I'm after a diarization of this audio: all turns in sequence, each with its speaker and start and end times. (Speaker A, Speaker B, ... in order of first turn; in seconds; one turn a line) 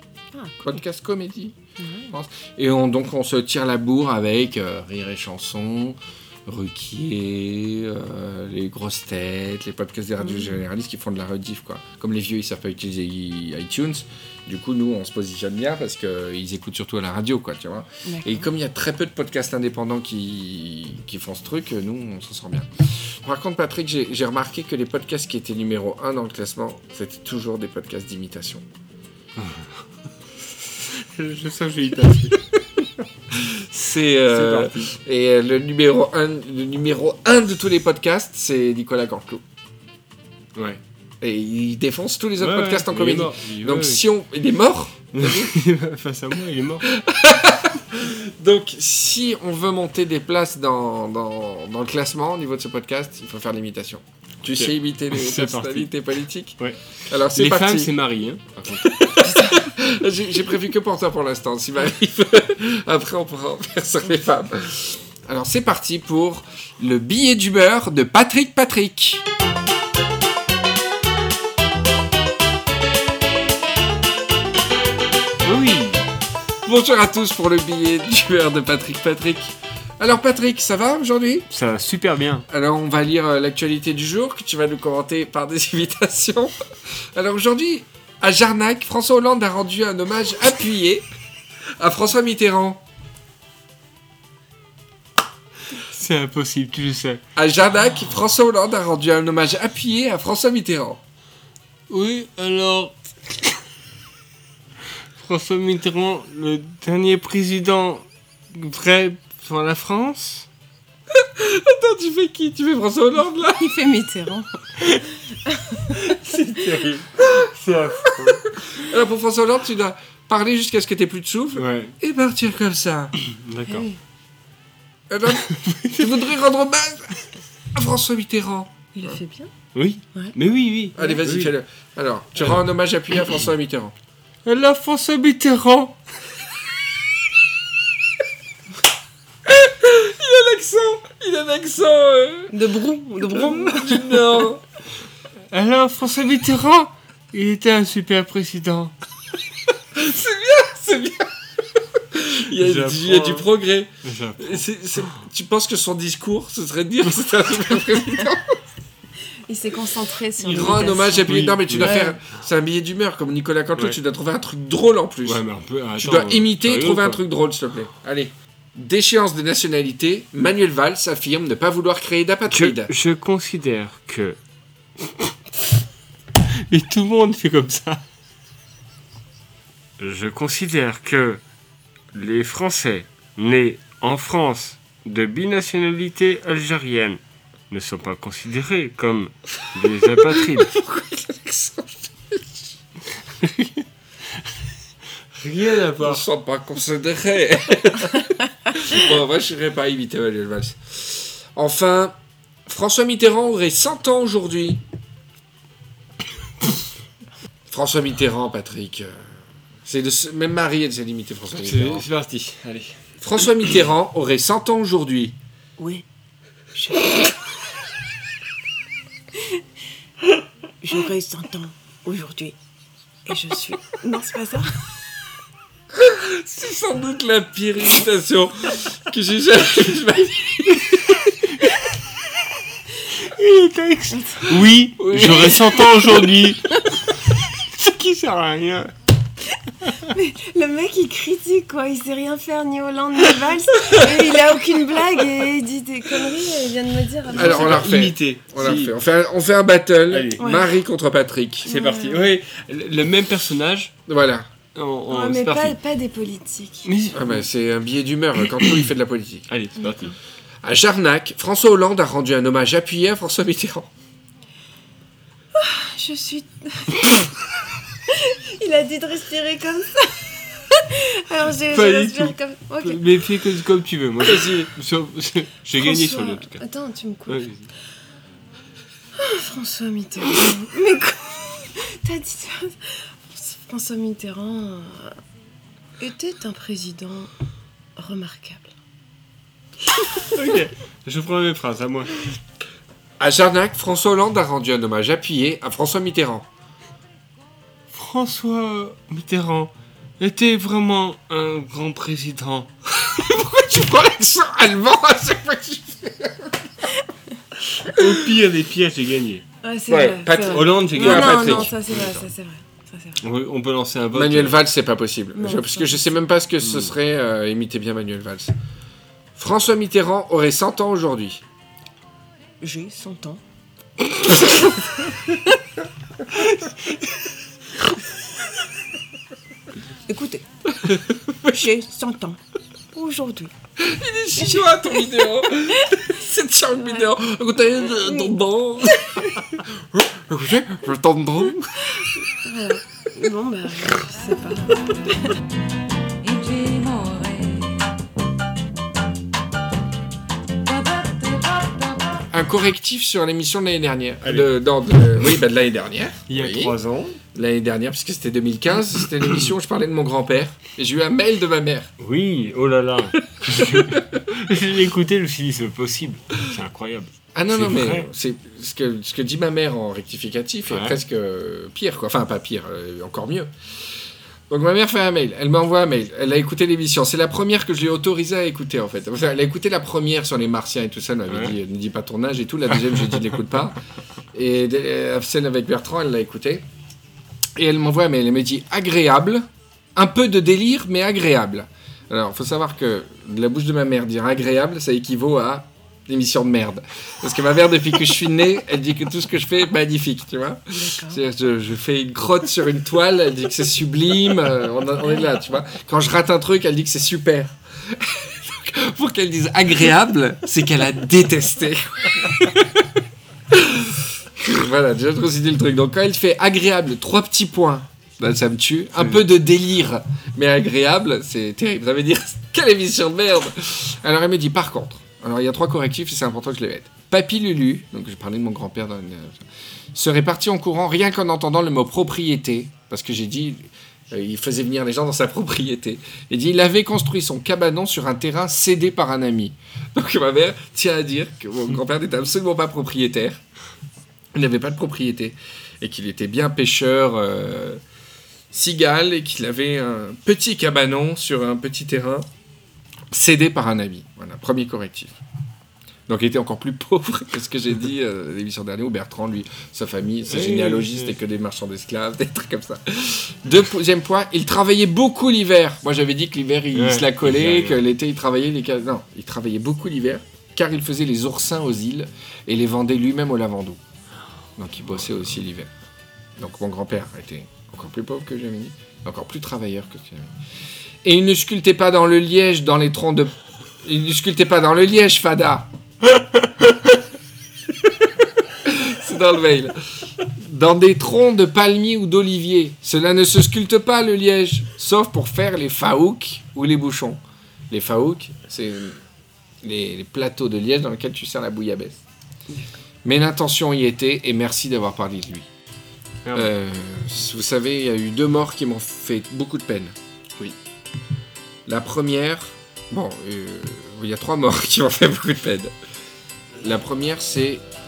Speaker A: 0.3-0.8
Speaker B: 0.6-1.6
Speaker A: 1.8-2.1
Speaker B: 2.1-28.6
Speaker A: 10.2-10.6
Speaker A: 18.1-18.5
Speaker C: 30.9-32.4
Speaker B: 33.3-39.4
Speaker C: 34.3-34.9
Speaker C: 40.5-40.8
Speaker B: 41.2-45.5
Speaker C: 42.4-44.0
Speaker C: 45.1-46.9
Speaker B: 46.9-57.9
Speaker C: 54.5-55.9
Speaker C: 56.6-59.1
Speaker B: 58.8-69.2
Speaker A: 59.2-59.7
Speaker C: 75.4-76.0
Speaker B: 76.6-81.5
Speaker C: 81.5-82.5
Speaker B: 82.5-86.6
Speaker B: 87.1-91.0
Speaker B: 91.8-92.8
Speaker C: 95.7-97.2
Speaker B: 97.3-101.0
Speaker C: 101.9-103.0
Speaker C: 105.2-110.5
Speaker B: 111.1-113.7
Speaker A: 113.4-116.0
Speaker C: 115.9-118.4
Speaker B: 118.6-123.1
Speaker C: 121.5-122.0
Speaker C: 123.2-123.9
Speaker A: 123.7-124.0
Speaker B: 125.1-127.1
Speaker C: 125.4-126.0
Speaker B: 127.7-129.2
Speaker A: 128.9-129.5
Speaker C: 129.7-131.5
Speaker B: 130.9-133.9
Speaker C: 134.4-136.0
Speaker B: 139.4-142.5
Speaker A: 142.5-144.4
Speaker B: 143.3-144.6
Speaker C: 145.5-148.9
Speaker B: 149.9-151.3
Speaker B: 152.0-158.6
Speaker C: 152.5-153.5
Speaker C: 154.0-155.2
Speaker A: 159.5-162.2
Speaker B: 160.4-165.4
Speaker C: 160.5-162.1
Speaker C: 165.2-167.2
Speaker B: 166.0-172.9
Speaker C: 172.5-174.4
Speaker C: 175.0-175.3
Speaker C: 176.5-178.0
Speaker C: 180.0-181.4
Speaker C: 182.1-190.7
Speaker B: 190.4-192.7
Speaker C: 193.4-193.7
Speaker C: 195.3-196.2
Speaker B: 196.0-204.8
Speaker B: 207.7-209.3
Speaker B: 209.8-212.1
Speaker C: 211.6-213.0
Speaker B: 213.2-215.3
Speaker A: 215.8-216.0
Speaker A: 216.7-217.3
Speaker A: 220.8-222.5
Speaker A: 223.2-224.7
Speaker B: 225.9-231.4
Speaker C: 233.1-238.9
Speaker A: 234.1-234.4
Speaker B: 235.0-235.8
Speaker A: 240.1-247.8
Speaker C: 247.3-248.9
Speaker B: 247.3-251.7
Speaker C: 250.1-250.4
Speaker A: 250.4-250.7
Speaker A: 251.6-252.2
Speaker C: 251.6-253.9
Speaker B: 254.1-254.5
Speaker C: 254.7-255.8
Speaker A: 255.1-256.9
Speaker C: 256.8-257.5
Speaker B: 257.1-259.5
Speaker C: 259.5-260.1
Speaker B: 260.6-263.9
Speaker A: 265.5-267.3
Speaker A: 268.1-273.2
Speaker C: 271.7-276.6
Speaker A: 275.8-277.5
Speaker C: 277.3-277.6
Speaker A: 279.1-285.2
Speaker A: 286.0-287.3
Speaker A: 288.0-288.7
Speaker C: 290.2-292.2
Speaker B: 293.2-296.5
Speaker C: 297.9-302.7
Speaker B: 303.0-306.6
Speaker C: 307.8-309.4
Speaker A: 309.6-313.2
Speaker B: 309.9-311.7
Speaker C: 310.4-312.2
Speaker C: 313.2-314.6
Speaker B: 314.1-318.5
Speaker A: 315.3-316.1
Speaker C: 316.6-316.9
Speaker B: 319.4-321.4
Speaker A: 322.6-323.4
Speaker A: 330.1-330.4
Speaker A: 331.4-332.4
Speaker A: 332.9-333.5
Speaker B: 333.8-339.3
Speaker A: 334.4-335.2
Speaker A: 335.8-336.1
Speaker A: 336.8-337.1
Speaker A: 337.8-338.3
Speaker B: 339.8-341.7
Speaker A: 342.0-345.4
Speaker A: 346.4-347.4
Speaker B: 352.3-356.7
Speaker C: 354.2-354.5
Speaker C: 356.3-357.2
Speaker B: 357.3-361.9
Speaker C: 362.0-368.1
Speaker B: 363.4-364.1
Speaker B: 367.3-373.5
Speaker C: 370.7-371.0
Speaker B: 374.5-383.8
Speaker C: 381.3-381.6
Speaker B: 384.3-386.6
Speaker B: 387.6-412.9
Speaker A: 400.7-401.2
Speaker B: 413.5-429.4
Speaker B: 429.9-443.4
Speaker B: 444.3-447.8
Speaker B: 448.5-452.3
Speaker B: 453.1-455.2
Speaker B: 456.1-473.8
Speaker C: 460.3-461.2
Speaker C: 466.7-467.8
Speaker B: 474.6-475.7
Speaker B: 476.4-480.3
Speaker B: 481.0-485.7
Speaker B: 488.6-499.0
Speaker B: 499.6-502.0
Speaker B: 503.0-505.5
Speaker C: 506.2-506.5
Speaker B: 506.3-509.9
Speaker B: 511.7-515.7
Speaker B: 516.6-517.6